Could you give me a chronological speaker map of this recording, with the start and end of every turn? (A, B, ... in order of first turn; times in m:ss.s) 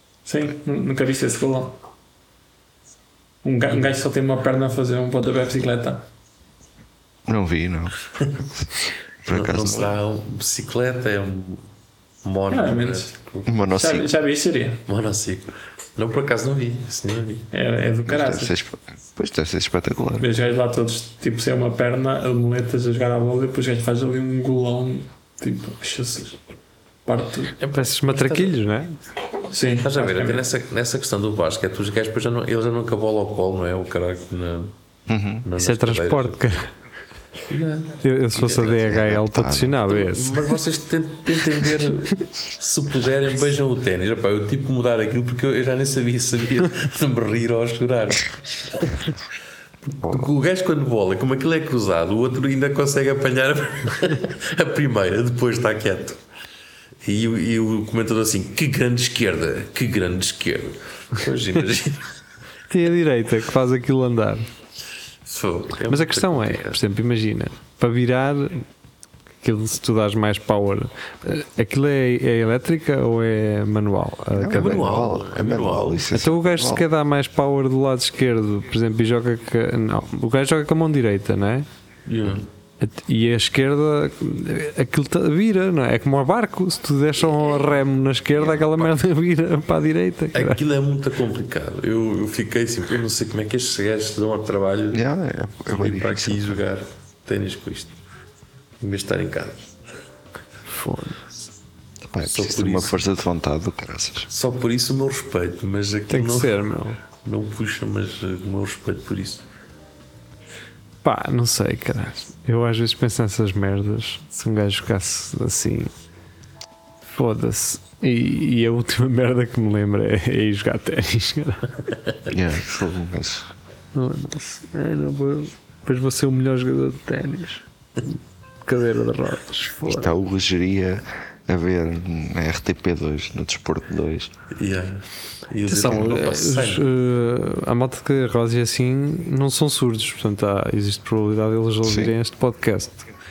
0:00.3-0:01.8 A
0:03.4-0:06.1 A
0:07.3-0:08.7 B
0:09.2-0:10.0 B
0:09.3-0:11.7 C
0:12.2-0:13.6 C
0:12.5-0:13.1 A
0:13.5-0:14.1 B
0:13.7-0:14.8 A
0:14.9-0:17.5 C
0:17.5-0:18.5 A
0:18.1-0:20.3 B
0:20.2-0:26.4 A
0:27.1-0:27.6 A
0:27.6-0:28.6 C
0:27.7-0:29.0 D
0:29.5-0:30.4 A
0:29.6-0:34.8 C
0:35.1-0:35.5 B
0:35.4-0:36.5 C
0:35.6-0:36.7 D
0:37.5-0:38.8 C
0:38.0-0:40.5 D
0:38.6-0:39.8 B
0:39.9-0:49.0 C
0:50.0-0:56.2 C
0:50.0-0:50.3 B
0:57.0-1:02.0 C
1:02.7-1:04.5 D
1:05.3-1:06.8 C
1:05.9-1:08.7 D
1:09.4-1:14.9 D
1:14.3-1:16.9 B
1:14.5-1:16.1 C
1:16.1-1:21.7 D
1:22.1-1:22.5 C
1:22.8-1:30.6 D
1:28.4-1:28.9 C
1:30.3-1:35.0 C
1:34.9-1:36.6 B
1:35.7-1:38.0 C
1:38.8-1:39.7 C
1:40.7-1:41.4 D
1:42.0-1:44.3 B
1:42.2-1:43.0 C
1:44.3-1:49.4 C
1:46.1-1:47.0 D
1:51.0-1:55.9 D
1:57.1-2:01.7 D
2:02.3-2:03.5 B
2:03.9-2:07.6 D
2:08.6-2:10.1 D
2:09.8-2:14.3 B
2:14.6-2:16.9 C
2:15.7-2:23.1 D
2:21.8-2:22.1 B